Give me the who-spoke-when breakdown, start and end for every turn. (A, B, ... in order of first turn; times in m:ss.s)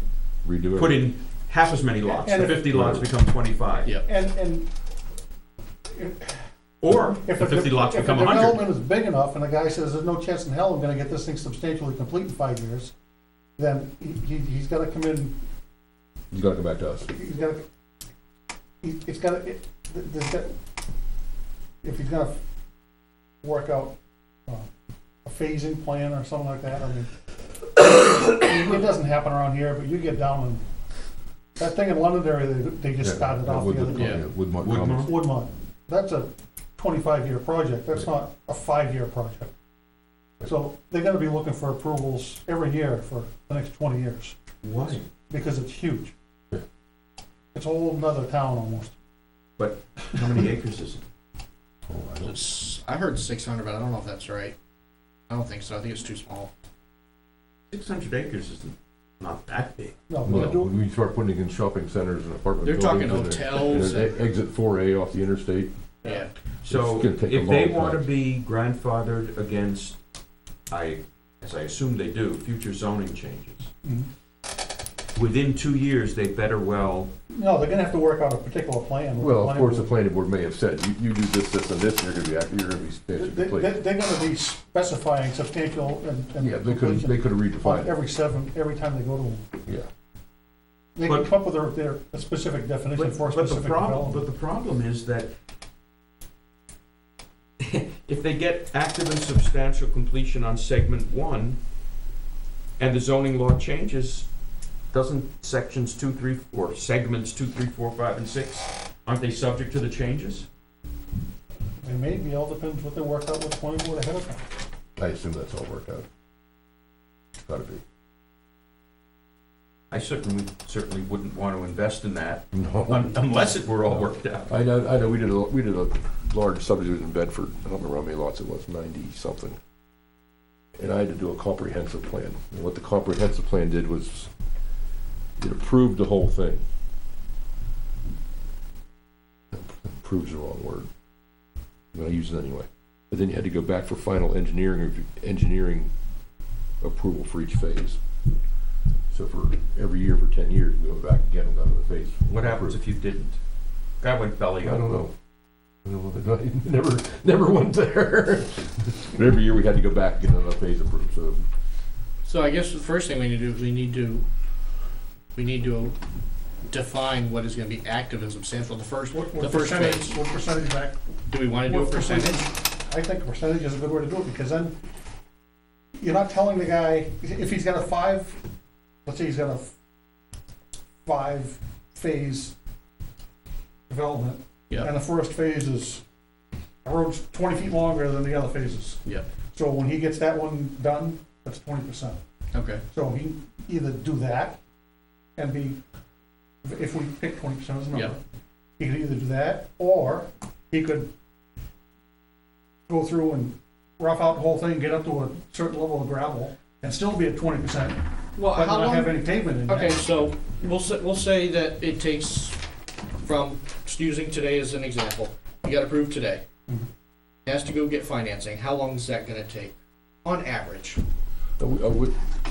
0:00.4-0:01.1 A
0:00.8-0:03.9 B
0:02.0-0:02.7 C
0:02.6-0:03.1 A
0:04.0-0:04.7 C
0:05.9-0:06.4 C
0:06.8-0:08.7 B
0:07.2-0:12.9 C
0:13.6-0:15.4 C
0:16.3-0:17.1 A
0:17.1-0:17.6 C
0:18.8-0:20.5 C
0:21.8-0:22.4 C
0:23.4-0:24.0 C
0:25.2-0:27.1 C
0:27.8-0:30.6 C
0:31.6-0:34.1 C
0:33.0-0:35.1 A
0:33.9-0:34.2 D
0:34.6-0:35.1 B
0:34.9-0:39.5 C
0:40.4-0:44.4 C
0:44.6-0:45.1 B
0:45.3-0:46.1 C
0:47.5-0:48.9 C
0:49.6-0:51.0 B
0:51.9-0:52.4 A
0:52.2-0:54.6 D
0:55.3-0:56.5 D
0:57.7-1:00.4 B
1:00.1-1:00.7 C
1:00.2-1:05.7 A
1:02.6-1:04.2 D
1:06.0-1:06.3 D
1:06.6-1:10.0 B
1:06.7-1:08.0 A
1:10.7-1:13.7 B
1:13.8-1:14.1 C
1:15.2-1:17.1 B
1:17.3-1:19.9 C
1:19.2-1:23.8 A
1:23.2-1:29.4 C
1:26.4-1:27.9 A
1:31.0-1:34.3 C
1:31.1-1:31.3 B
1:33.0-1:35.3 B
1:37.6-1:41.6 B
1:42.8-1:44.3 B
1:44.9-1:50.5 B
1:51.8-1:54.4 C
1:55.0-1:56.0 A
1:57.4-1:57.8 A
1:59.9-2:04.5 B
2:02.5-2:03.2 A
2:04.5-2:09.6 A
2:10.8-2:14.3 A
2:15.4-2:16.6 A
2:19.5-2:20.9 A
2:21.9-2:25.9 A
2:26.8-2:28.0 A
2:29.1-2:32.8 A
2:32.3-2:33.4 B
2:34.0-2:35.1 B
2:34.6-2:35.1 A
2:35.8-2:41.5 A
2:42.2-2:44.2 D
2:45.3-2:46.0 D
2:46.7-2:50.2 D
2:49.1-2:51.1 C
2:51.3-2:52.5 D
2:51.6-2:54.8 C
2:56.0-2:58.4 C
2:59.1-2:59.7 C
3:01.0-3:02.5 C
3:03.9-3:06.0 C
3:06.8-3:09.0 C
3:09.5-3:12.2 C
3:12.5-3:12.8 D
3:12.9-3:14.6 C
3:15.4-3:15.8 C
3:16.6-3:18.2 C
3:18.8-3:21.1 C
3:22.9-3:30.1 C
3:28.4-3:32.6 D
3:33.2-3:36.4 D
3:37.5-3:39.7 D
3:40.2-3:41.0 D
3:41.6-3:42.2 A